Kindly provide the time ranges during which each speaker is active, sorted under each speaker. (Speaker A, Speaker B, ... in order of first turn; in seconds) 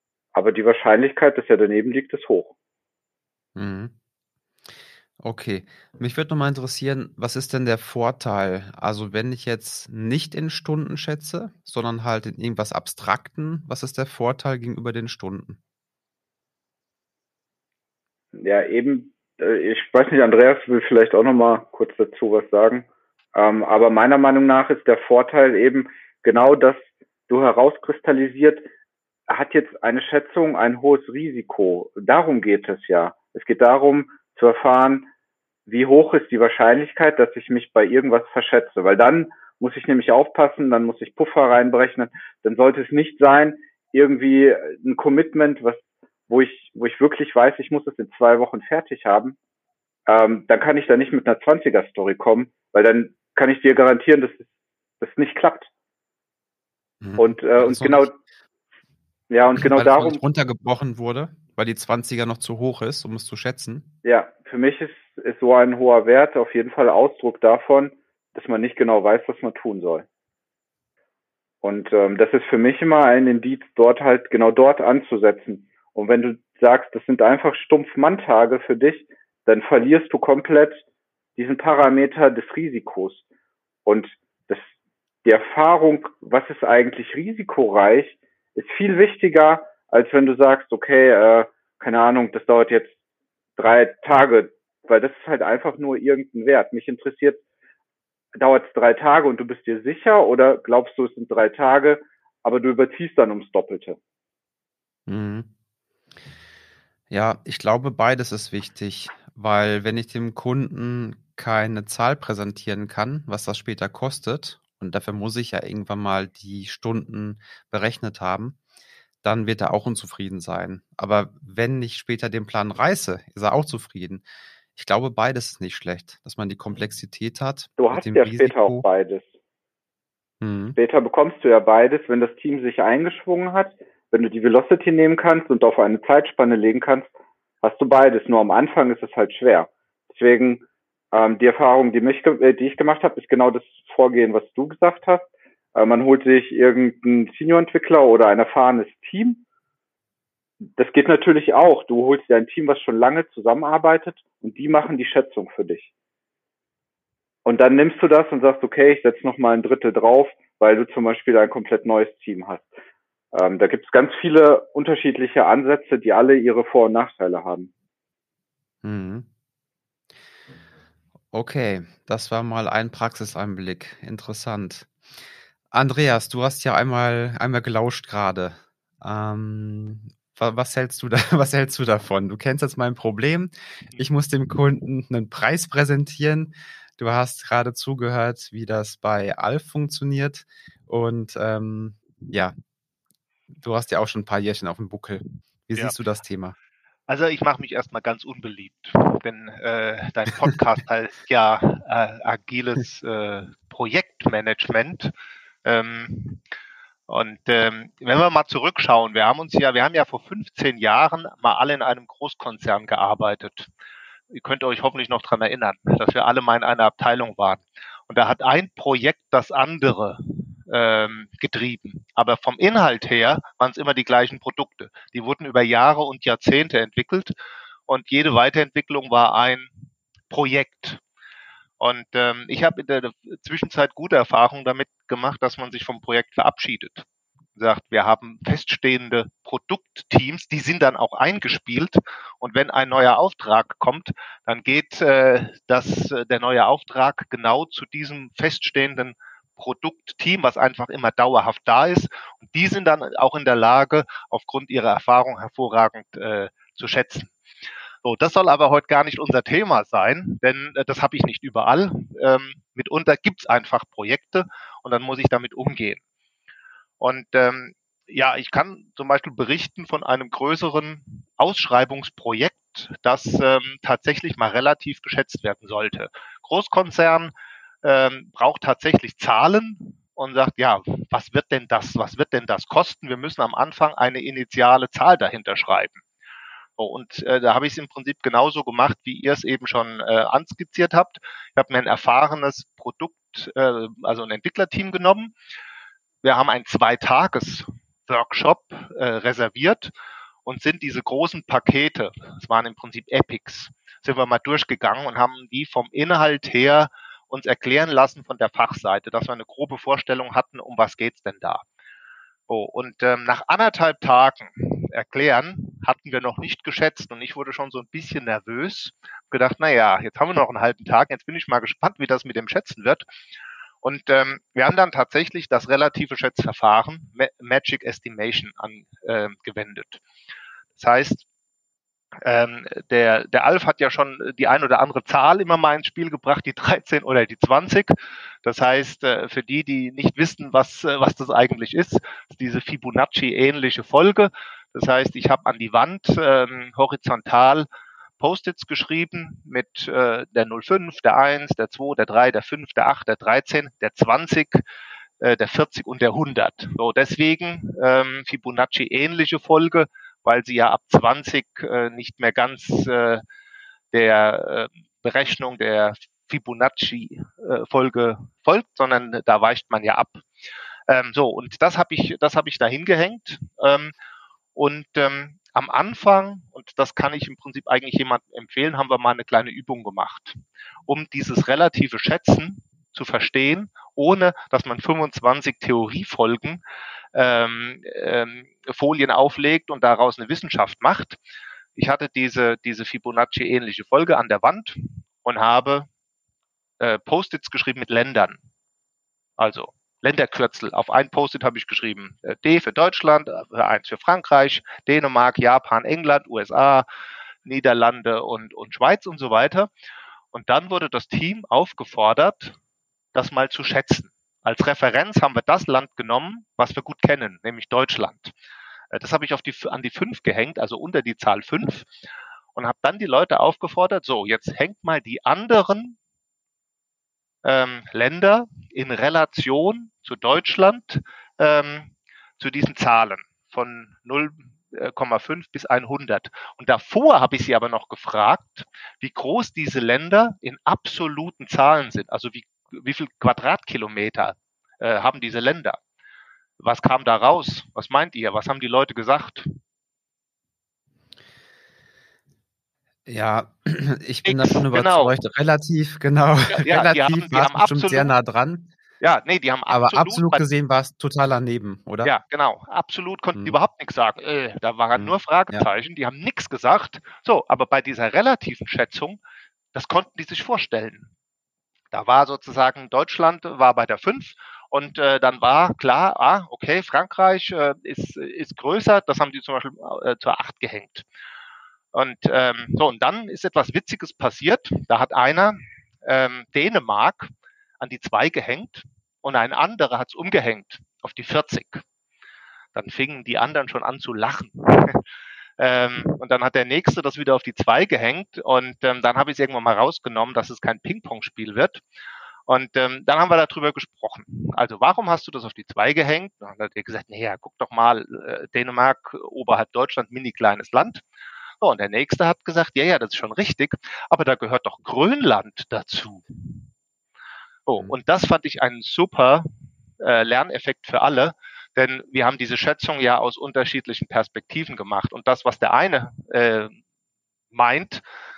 Speaker A: 0.3-2.5, 18.3-28.7, 29.3-35.1, 35.7-49.4, 50.1-54.5, 55.0-55.7, 57.2-58.1, 59.3-60.2, 64.0-70.0, 71.6-80.8, 81.3-83.2, 83.8-84.7, 85.2-92.9, 93.6-97.4, 98.3-104.0, 127.8-129.3, 130.8-137.1, 137.6-149.4, 150.7-155.9, 157.4-162.7, 163.3-167.7
Speaker B: 3.5-3.9, 5.2-15.6, 57.0-58.1, 59.6-63.9, 105.1-105.5, 107.1-118.6, 119.2-124.2, 124.8-128.8, 130.4-130.8, 168.8-169.3, 171.3-174.9, 175.7-192.5, 193.6-196.5, 453.1-458.7, 459.7-462.1, 464.9-465.7
Speaker C: 197.1-205.1, 205.6-206.4, 207.1-213.7, 214.3-227.3, 227.9-229.7, 230.3-231.0, 231.8-237.1, 237.6-257.3, 258.0-266.0, 267.0-277.3, 277.8-286.0, 286.8-295.3, 296.2-299.9, 300.4-311.6, 312.5-323.1, 323.8-330.0, 330.8-331.2, 332.2-347.7, 348.2-354.6, 355.2-363.2, 363.9-370.2, 370.9-373.9, 374.5-386.6, 387.1-391.2, 391.8-395.9, 396.8-398.4, 399.4-406.8, 407.4-409.7, 410.3-412.6, 413.1-418.3, 418.9-421.9, 422.5-426.0, 427.4-445.8, 446.6-449.5, 454.2-455.1, 456.5-458.1, 459.0-460.4, 462.0-469.2, 469.7-471.1, 471.9-481.0, 481.9-491.8, 492.7-495.0, 495.6-501.8, 502.5-511.0, 511.6-516.6, 517.7-519.5, 520.0-526.8, 527.5-528.0